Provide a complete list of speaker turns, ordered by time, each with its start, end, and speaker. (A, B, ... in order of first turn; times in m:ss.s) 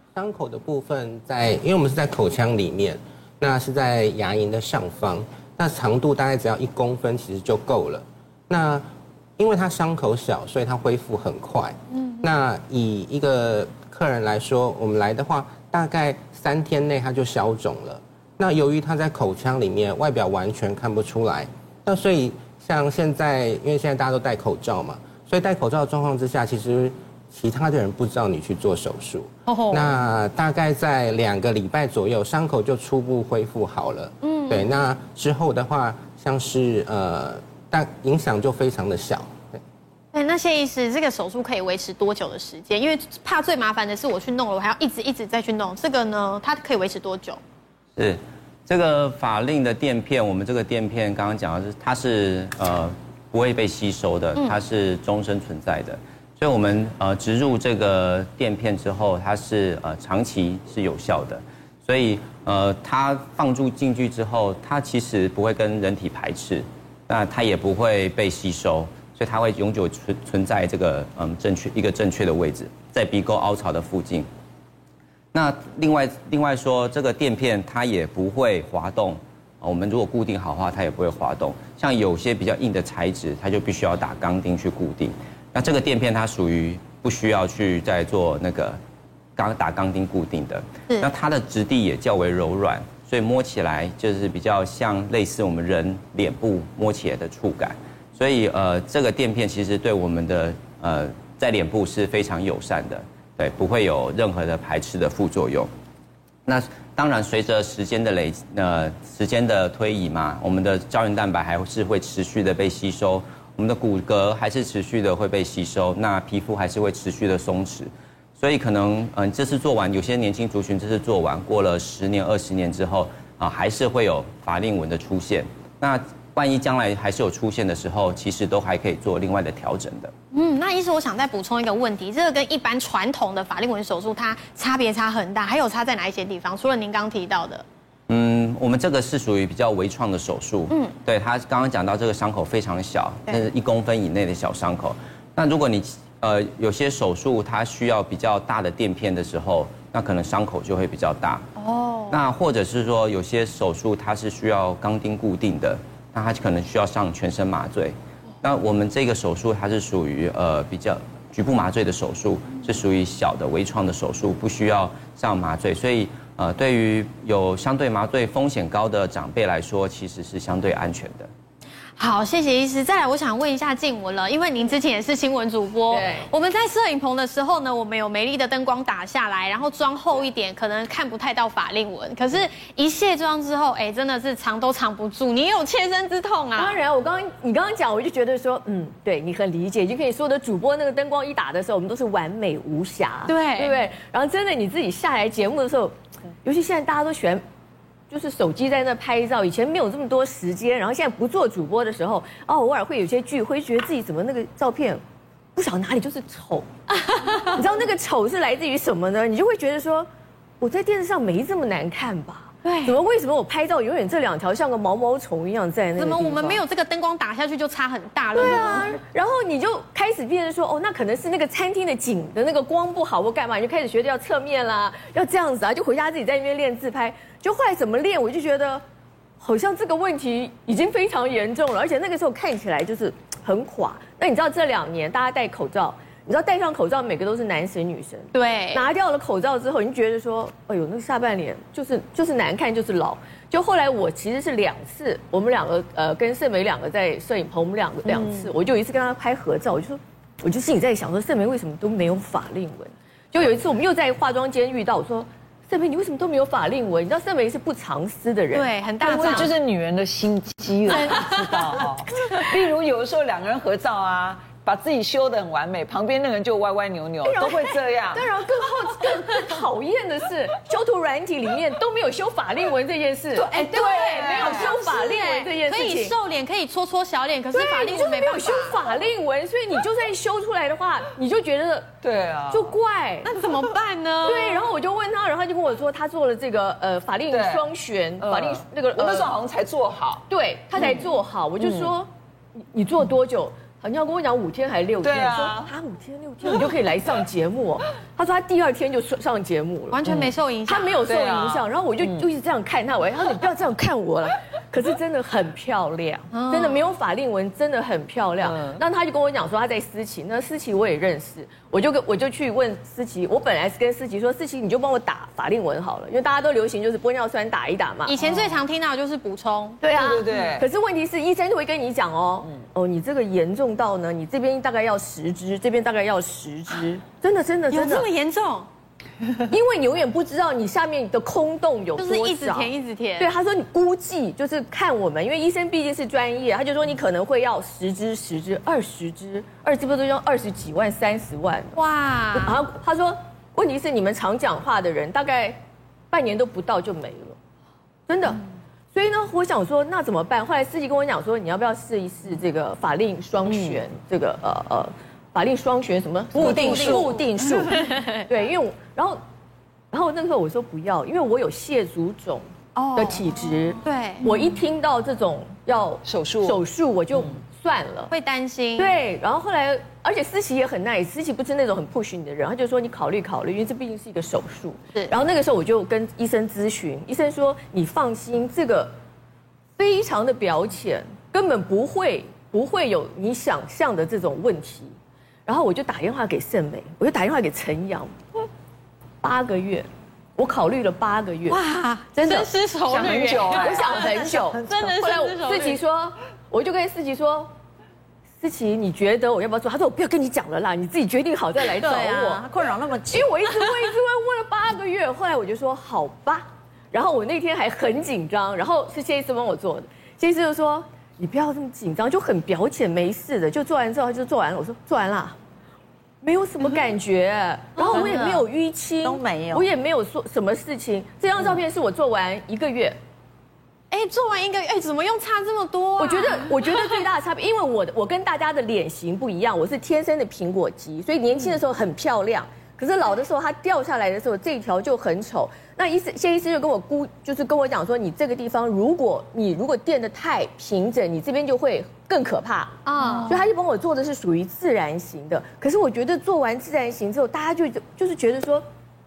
0:00.2-0:08.8 A
0:09.4-0:39.6 A
0:12.0-0:12.2 B
0:29.5-0:30.0 B
0:34.2-0:34.7 B
0:40.1-0:47.4 B
0:48.0-1:14.3 C
1:15.3-1:28.8 C
1:29.4-1:45.7 C
1:46.5-2:10.1 C
2:10.3-2:17.6 B
2:18.1-2:31.5 C
2:20.7-2:21.0 B
2:31.6-2:32.2 B
2:32.1-2:51.3 C
2:52.0-3:06.8 B
2:55.9-2:56.3 D
3:06.6-3:17.4 D
3:13.3-3:13.8 B
3:18.1-3:25.0 D
3:25.6-3:26.7 D
3:27.2-3:27.5 B
3:27.2-3:30.1 D
3:30.6-3:36.6 D
3:32.6-3:33.0 B
3:36.0-3:39.0 B
3:38.3-3:48.8 D
3:49.4-4:19.5 D
3:58.3-3:58.9 B
4:08.0-4:08.5 E
4:18.5-4:19.5 B
4:19.0-4:28.3 E
4:20.9-4:21.5 B
4:27.2-4:36.1 D
4:33.4-4:34.8 E
4:33.5-4:38.8 B
4:37.5-4:41.9 D
4:42.0-4:42.8 E
4:42.5-4:43.4 D
4:43.2-4:44.6 B
4:44.2-4:49.3 D
4:47.3-4:47.7 E
4:48.2-4:51.9 E
4:50.3-4:52.1 D
4:52.6-5:18.4 D
4:55.0-4:55.7 E
4:59.9-5:01.0 B
5:01.0-5:02.3 E
5:06.3-5:06.8 B
5:08.4-5:08.8 E
5:18.1-5:19.8 B
5:19.8-5:28.1 D
5:19.9-5:20.7 E
5:27.7-5:28.7 B
5:29.5-5:41.8 D
5:32.0-5:33.3 B
5:41.8-5:42.6 B
5:42.4-5:47.4 D
5:48.1-5:48.4 D
5:48.9-5:59.2 D
5:53.5-5:53.8 E
5:56.4-5:57.5 E
5:57.7-5:58.3 B
5:59.9-6:08.1 D
6:02.8-6:04.3 B
6:06.0-6:06.6 E
6:07.2-6:07.4 E
6:08.1-6:09.0 B
6:08.8-6:18.9 D
6:19.8-6:25.0 D
6:25.5-6:28.2 D
6:29.2-6:31.6 D
6:31.5-6:34.1 B
6:32.2-6:34.8 E
6:33.1-6:37.5 D
6:34.6-6:35.8 B
6:38.4-6:42.4 D
6:41.7-6:43.3 F
6:43.1-6:55.4 D
6:56.2-7:03.0 D
6:57.8-6:58.4 B
6:59.0-6:59.7 F
7:03.9-7:07.0 B
7:06.0-7:28.6 D
7:22.8-7:23.5 B